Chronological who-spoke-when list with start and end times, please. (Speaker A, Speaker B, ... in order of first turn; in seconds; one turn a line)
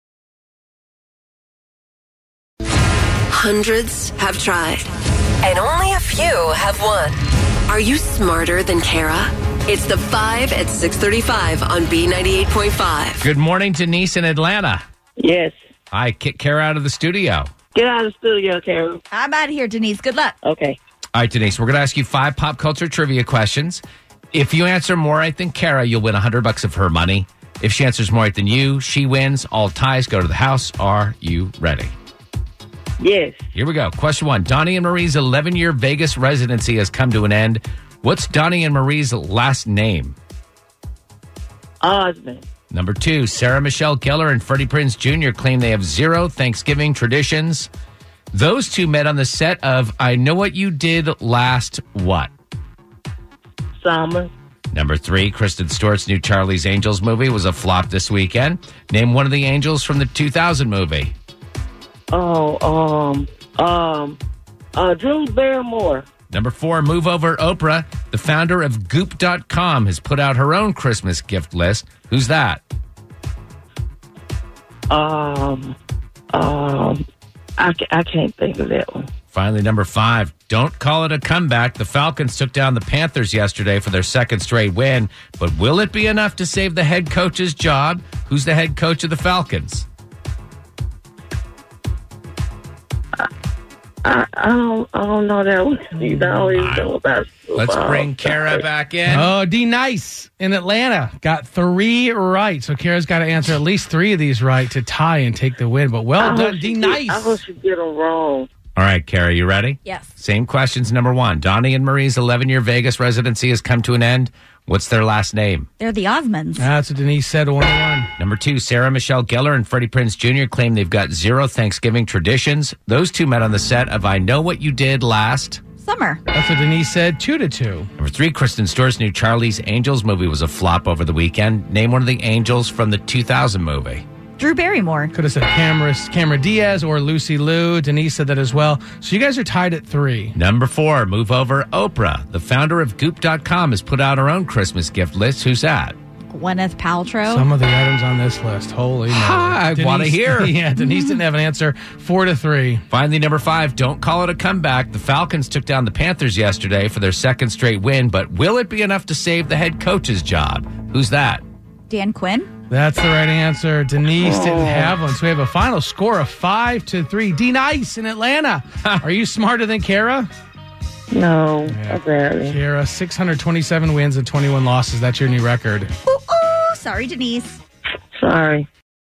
Speaker A: 3.3-4.9
Speaker A: 5.4-13.2
Speaker B: 13.2-14.8
Speaker C: 15.2-15.5
Speaker B: 15.9-17.5
Speaker C: 17.8-19.0
Speaker D: 19.1-20.4
Speaker C: 20.4-20.8
Speaker B: 21.1-31.9
Speaker C: 33.0-33.4
Speaker B: 33.5-40.2
Speaker C: 41.8-42.4
Speaker B: 42.7-47.7
Speaker B: 48.3-52.3
Speaker C: 53.8-54.3
Speaker B: 54.7-61.1
Speaker C: 62.1-64.2
Speaker C: 64.8-66.0
Speaker B: 66.3-72.6
Speaker C: 74.9-75.8
Speaker C: 76.3-77.0
Speaker C: 77.6-79.1
Speaker B: 79.3-89.9
Speaker C: 94.0-98.6
Speaker E: 96.0-96.6
Speaker B: 96.6-96.9
Speaker B: 97.6-99.3
Speaker E: 99.1-107.4
Speaker C: 106.2-108.5
Speaker B: 108.8-115.7
Speaker D: 115.8-116.7
Speaker E: 116.6-118.1
Speaker B: 118.2-125.6
Speaker D: 125.8-126.2
Speaker E: 126.3-127.9
Speaker B: 128.0-134.1
Speaker D: 134.4-135.1
Speaker E: 135.1-140.3
Speaker B: 140.3-146.0
Speaker D: 146.3-147.5
Speaker E: 147.3-152.8
Speaker B: 149.1-150.6
Speaker D: 150.8-151.2
Speaker B: 152.9-161.4
Speaker D: 161.9-162.5
Speaker E: 162.7-170.3
Speaker C: 164.2-164.9
Speaker C: 171.1-172.6
Speaker E: 171.7-175.9
Speaker D: 176.1-177.6
Speaker C: 178.2-178.7